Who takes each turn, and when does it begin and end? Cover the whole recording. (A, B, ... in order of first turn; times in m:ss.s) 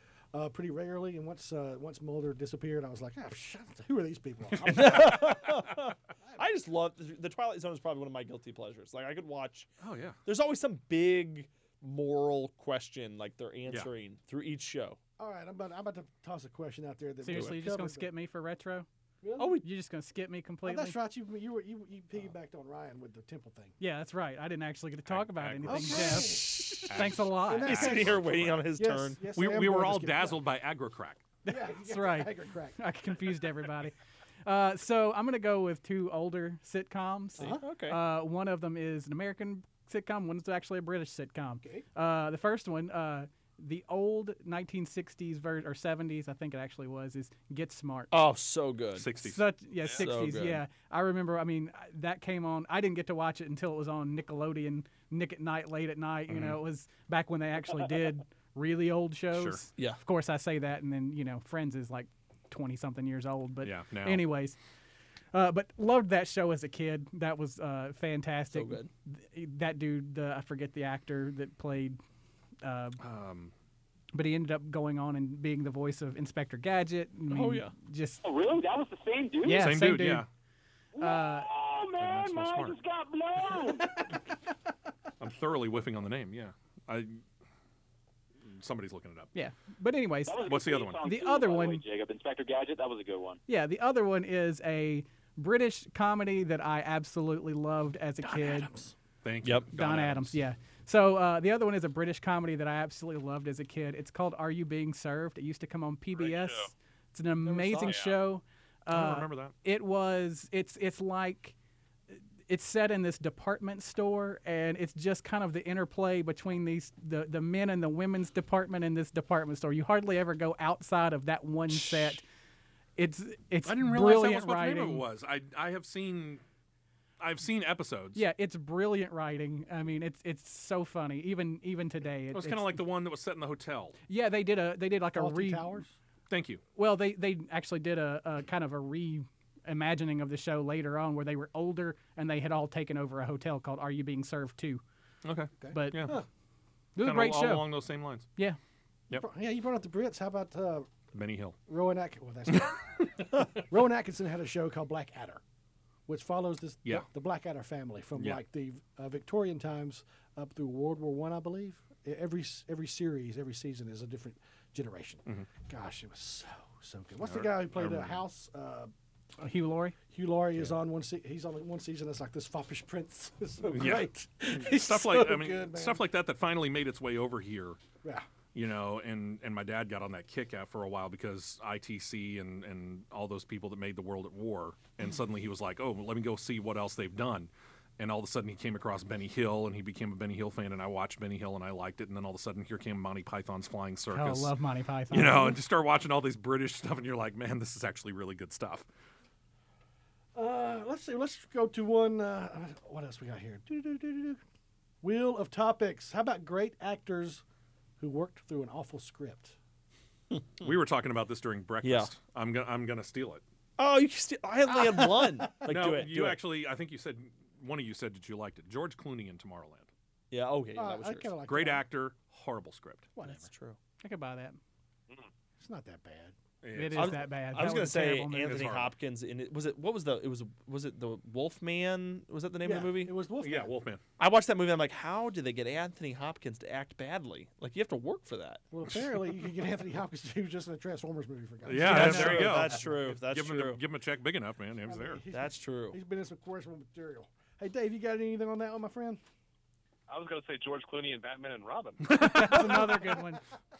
0:00.3-0:05.6 A
0:04.6-0:05.3 B
0:04.7-0:09.7 C
0:06.2-0:06.5 A
0:09.8-0:10.2 B
0:10.3-0:15.0 C
0:13.7-0:13.9 B
0:15.2-0:18.1 A
0:17.2-0:18.9 D
0:17.3-0:17.6 C
0:19.2-0:19.6 A
0:19.4-0:19.7 C
0:19.6-0:21.0 D
0:20.6-0:23.8 A
0:23.8-0:27.9 D
0:25.1-0:26.2 B
0:25.7-0:30.5 A
0:26.1-0:29.2 C
0:26.9-0:28.6 B
0:29.3-0:31.2 B
0:31.4-0:32.8 A
0:31.5-0:48.1 D
0:37.4-0:37.6 A
0:37.4-0:38.0 C
0:48.1-0:49.1 C
0:49.0-0:49.5 B
0:49.2-1:04.6 D
0:50.0-0:50.6 C
0:56.3-0:56.6 B
0:59.3-0:59.6 B
1:03.6-1:04.2 B
1:05.3-1:12.0 D
1:08.5-1:08.9 C
1:12.6-1:13.0 D
1:13.0-1:13.5 B
1:14.1-1:18.3 D
1:17.3-1:17.8 C
1:18.2-1:19.7 E
1:19.4-1:20.3 D
1:19.5-1:20.3 B
1:21.0-1:24.1 E
1:21.0-1:21.5 D
1:22.0-1:22.8 B
1:25.2-1:27.2 B
1:28.4-1:29.3 B
1:29.3-1:31.8 D
1:30.2-1:33.4 E
1:30.4-1:31.0 B
1:33.5-1:38.7 D
1:38.2-1:38.9 A
1:39.2-1:40.4 B
1:39.4-1:39.7 C
1:39.7-1:51.6 D
1:46.1-1:46.7 F
1:47.4-1:48.1 C
1:47.7-1:48.2 F
1:48.9-1:49.5 B
1:52.5-2:02.2 D
2:03.0-2:05.1 D
2:03.6-2:06.4 B
2:07.2-2:08.2 B
2:08.2-2:12.9 D
2:12.3-2:14.0 B
2:14.1-2:15.8 D
2:15.2-2:15.9 A
2:16.3-2:16.6 B
2:16.8-2:24.8 D
2:25.2-2:26.2 B
2:25.6-2:26.2 A
2:25.7-2:26.2 D
2:27.0-2:27.8 D
2:27.0-2:28.3 B
2:29.1-2:30.9 A
2:31.1-2:31.6 B
2:31.7-2:32.8 A
2:32.5-2:33.5 B
2:33.6-2:35.4 A
2:36.1-2:48.9 A
2:47.2-2:48.2 B
2:49.4-2:50.0 D
2:50.1-2:56.0 A
2:53.7-2:57.8 B
2:58.0-2:58.3 A
2:58.5-3:14.5 B
3:14.1-3:15.6 D
3:15.1-3:18.9 B
3:20.4-3:24.4 A
3:25.0-3:27.4 A
3:28.0-3:29.6 A
3:30.6-3:33.4 B
3:31.8-3:32.1 C
3:33.8-3:36.4 C
3:34.8-3:35.5 A
3:35.7-3:39.9 B
3:40.3-3:41.4 C
3:40.7-3:41.9 A
3:41.5-3:43.1 B
3:43.2-3:43.5 A
3:43.2-3:43.8 C
3:44.0-3:44.6 D
3:45.6-3:46.4 A
3:46.6-3:47.3 B
3:46.7-3:48.7 D
3:47.0-3:53.1 C
3:48.4-3:48.9 B
3:52.6-3:53.7 A
3:53.4-3:54.0 B
3:54.2-3:58.6 C
3:58.7-4:02.9 A
4:01.6-4:05.2 B
4:01.8-4:03.8 C
4:04.9-4:09.2 A
4:05.3-4:06.0 C
4:10.1-4:12.1 F
4:12.1-4:12.8 B
4:12.1-4:13.4 D
4:12.4-4:13.4 A